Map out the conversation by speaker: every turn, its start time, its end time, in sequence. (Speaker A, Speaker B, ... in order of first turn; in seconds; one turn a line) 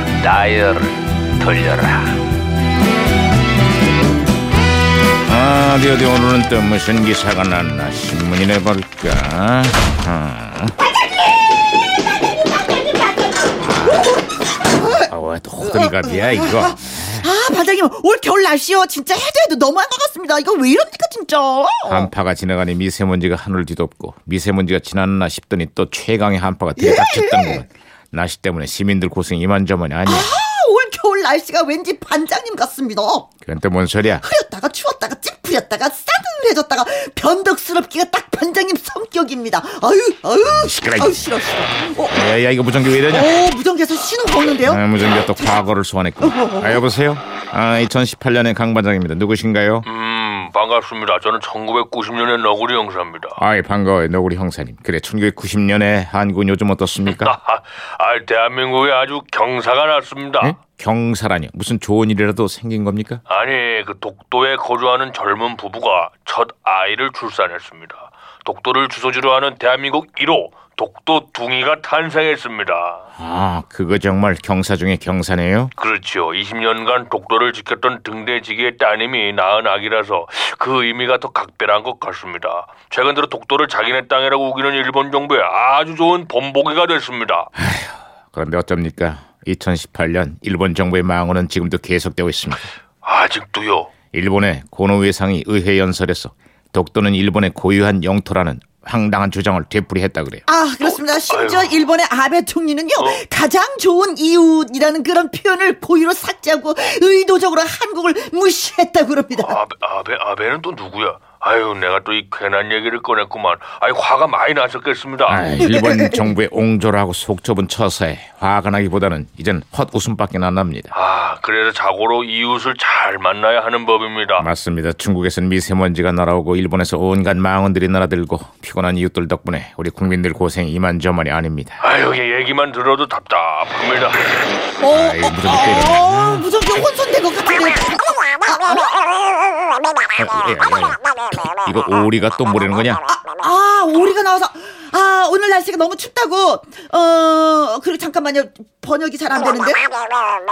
Speaker A: 0.2-2.1
Speaker A: 5.3-10.7
Speaker B: 12.3-15.1
Speaker A: 13.6-14.1
Speaker A: 15.0-17.3
Speaker B: 15.6-22.1
Speaker A: 21.9-30.3
Speaker B: 26.8-27.6
Speaker B: 30.1-33.3
Speaker A: 33.4-34.2
Speaker B: 34.2-42.2
Speaker A: 40.5-41.2
Speaker A: 42.0-43.4
Speaker B: 43.1-44.8
Speaker A: 44.6-49.8
Speaker B: 46.2-46.8
Speaker C: 49.8-53.4
Speaker A: 53.4-57.4
Speaker C: 57.0-60.6
Speaker A: 60.4-63.2
Speaker C: 63.3-73.0
Speaker A: 73.2-75.7
Speaker C: 75.8-87.5
Speaker A: 87.5-92.6
Speaker C: 93.0-93.9
Speaker A: 94.1-100.4
Speaker B: 100.5-109.6
Speaker C: 100.8-101.8
Speaker C: 103.0-103.2
Speaker C: 109.4-115.5
Speaker A: 115.3-120.9
Speaker B: 115.6-116.2
Speaker C: 120.9-124.5
Speaker A: 124.4-131.8
Speaker C: 131.8-134.4
Speaker B: 134.8-139.0
Speaker A: 134.9-136.5
Speaker A: 140.2-143.0
Speaker B: 143.0-150.2